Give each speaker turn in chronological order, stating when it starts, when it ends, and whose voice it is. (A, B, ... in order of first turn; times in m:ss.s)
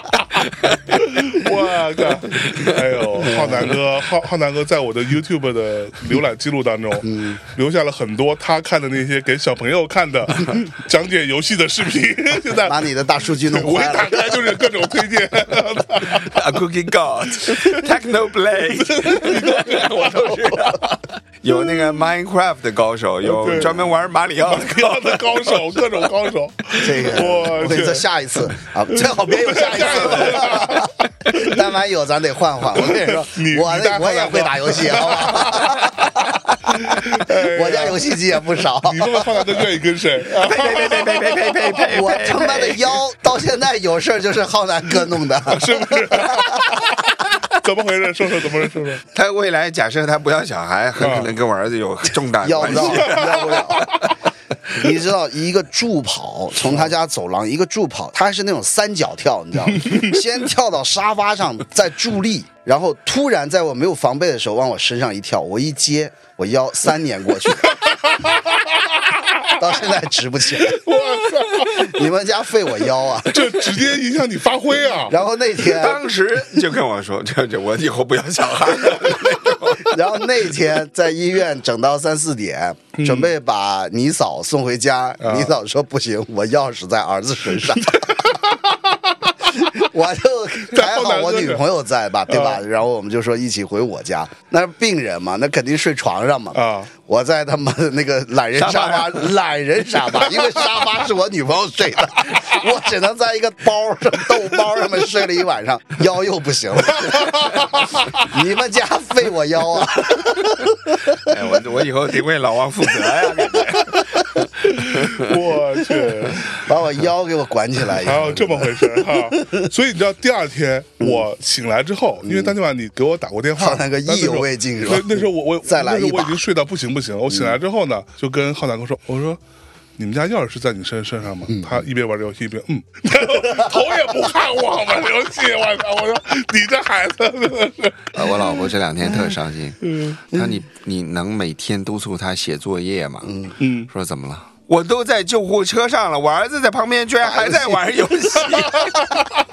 0:00.8-0:12.9 A
0:02.3-0:02.8 B
0:03.2-0:03.7 C
0:07.0-0:07.4 C
0:12.6-0:14.6 C
0:13.4-0:16.5 A
0:16.0-0:25.9 B
0:17.5-0:17.9 A
0:18.7-0:20.8 A
0:23.2-0:23.9 A
0:24.4-0:30.9 A
0:26.8-0:39.6 C
0:32.8-0:38.1 A
0:38.8-0:41.9 A
0:40.3-0:43.0 B
0:41.8-0:46.9 C
0:45.4-0:49.0 A
0:49.1-0:54.0 B
0:51.0-0:51.3 A
0:52.4-0:54.0 C
0:52.7-0:53.9 A
0:54.7-1:07.8 C
0:59.8-1:00.2 A
1:07.7-1:09.6 A
1:09.5-1:10.8 C
1:10.6-1:12.0 A
1:11.6-1:13.6 C
1:13.3-1:15.2 A
1:15.1-1:16.0 C
1:15.6-1:20.1 B
1:19.8-1:28.2 C
1:23.0-1:23.3 A
1:25.2-1:25.6 A
1:27.8-1:28.8 A
1:29.3-1:29.7 A
1:29.6-1:51.3 C
1:30.7-1:31.6 A
1:32.3-1:32.6 A
1:36.5-1:36.9 A
1:38.6-1:39.3 B
1:47.0-1:48.2 A
1:51.2-1:54.2 B
1:54.6-1:56.6 A
1:54.9-1:55.4 B
1:56.5-1:59.7 C
1:58.0-2:09.4 A
2:02.2-2:02.5 C
2:03.6-2:06.4 C
2:07.3-2:07.6 C
2:10.0-2:18.5 A
2:11.5-2:11.8 C
2:18.1-2:29.1 B
2:19.9-2:20.2 A
2:23.2-2:23.6 C
2:23.6-2:23.9 A
2:27.2-2:27.9 C
2:28.5-2:29.0 A